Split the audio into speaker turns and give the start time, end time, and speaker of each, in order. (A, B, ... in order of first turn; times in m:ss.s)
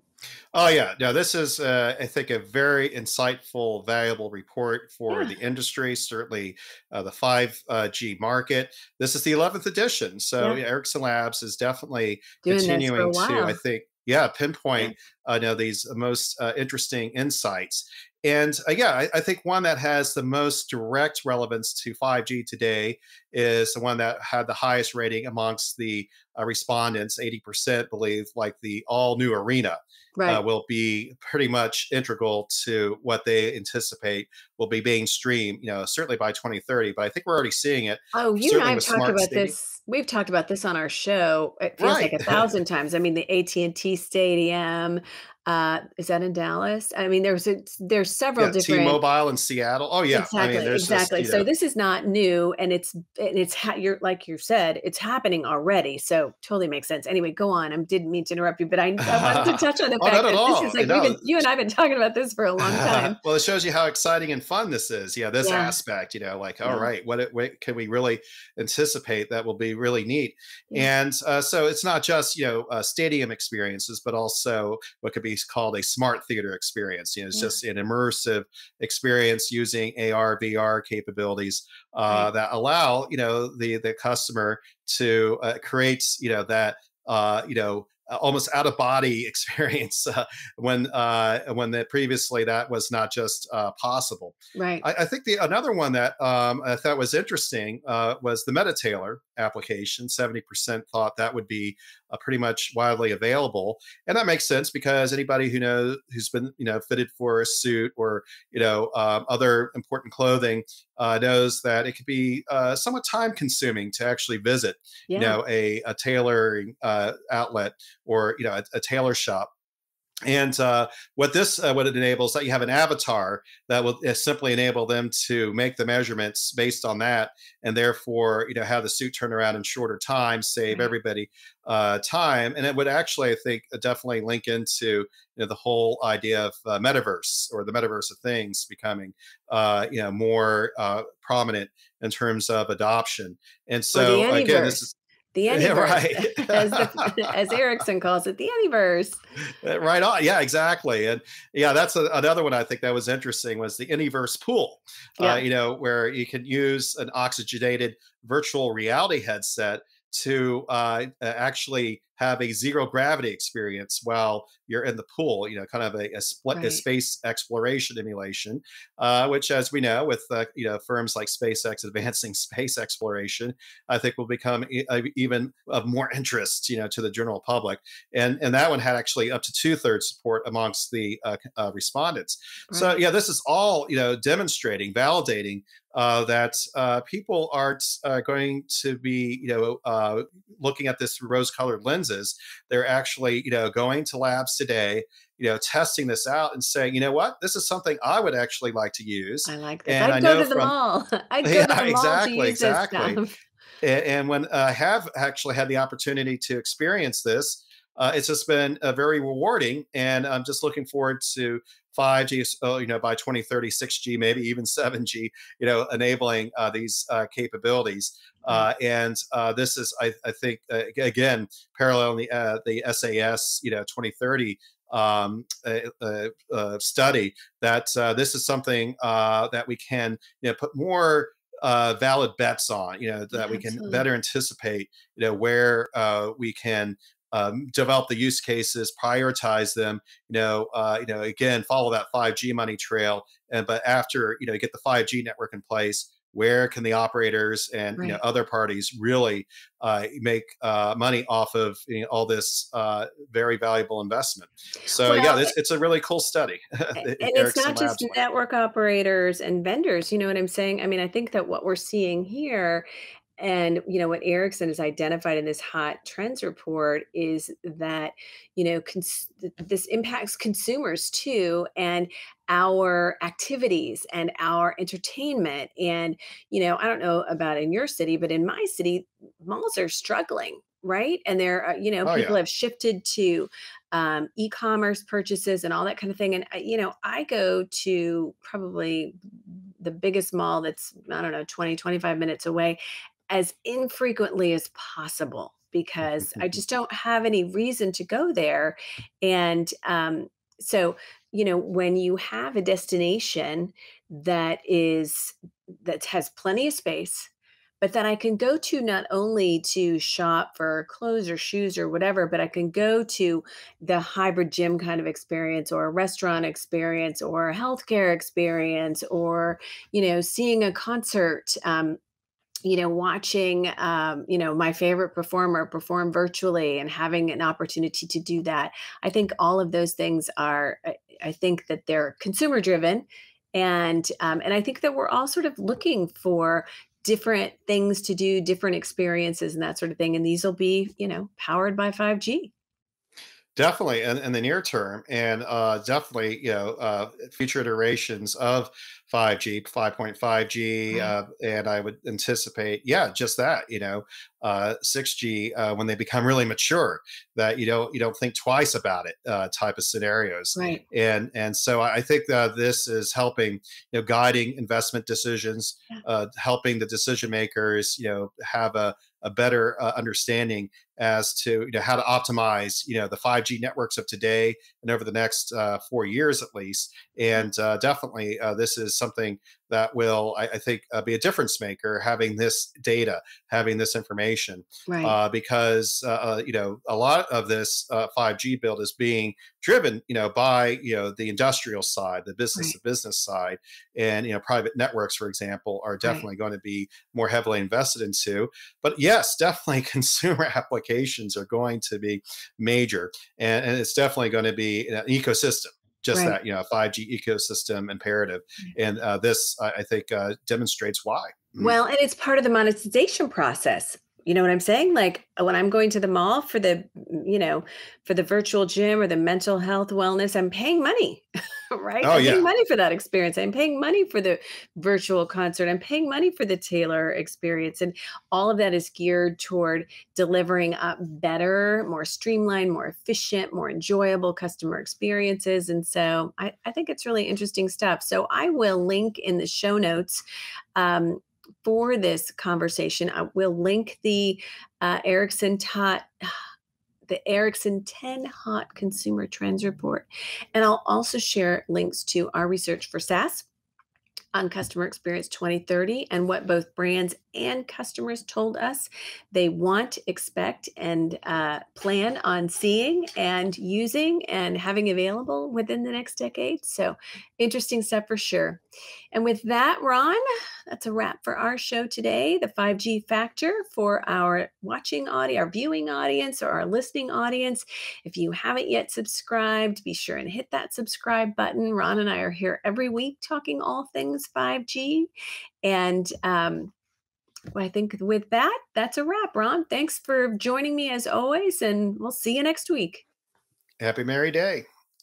0:00.5-0:39.5 A
0:12.4-0:13.6 B
0:30.2-0:30.4 B
0:38.1-0:49.0 B
0:41.8-0:42.4 A
0:48.4-0:51.5 A
0:50.1-1:03.2 B
0:59.0-1:01.2 A
1:02.6-1:59.5 A
1:05.4-1:05.8 B
1:06.6-1:06.9 B
1:34.6-1:34.8 B
1:55.1-1:55.4 B
2:00.3-2:24.9 A
2:23.9-2:24.8 B
2:25.4-2:29.2 B
2:25.5-2:27.2 A
2:29.6-3:20.7 A
2:35.2-2:35.4 B
2:46.6-2:46.8 B
3:02.7-3:03.0 B
3:19.5-3:23.3 B
3:21.4-3:23.2 A
3:23.8-4:18.2 A
3:53.4-3:54.1 B
4:14.9-4:15.5 B
4:17.0-4:22.9 B
4:23.4-4:52.8 B
4:42.0-4:42.4 A
4:53.3-5:07.3 B
5:07.8-5:22.0 B
5:22.6-5:42.5 B
5:43.6-6:51.7 A
6:00.6-6:00.8 B
6:24.9-6:25.2 B
6:51.6-7:20.2 B
7:02.0-7:02.5 A
7:20.8-7:26.4 B
7:27.1-7:33.5 B
7:34.3-7:48.6 B
7:49.1-8:05.1 B
8:05.6-8:06.7 B
8:07.5-8:13.0 B
8:13.8-8:14.7 A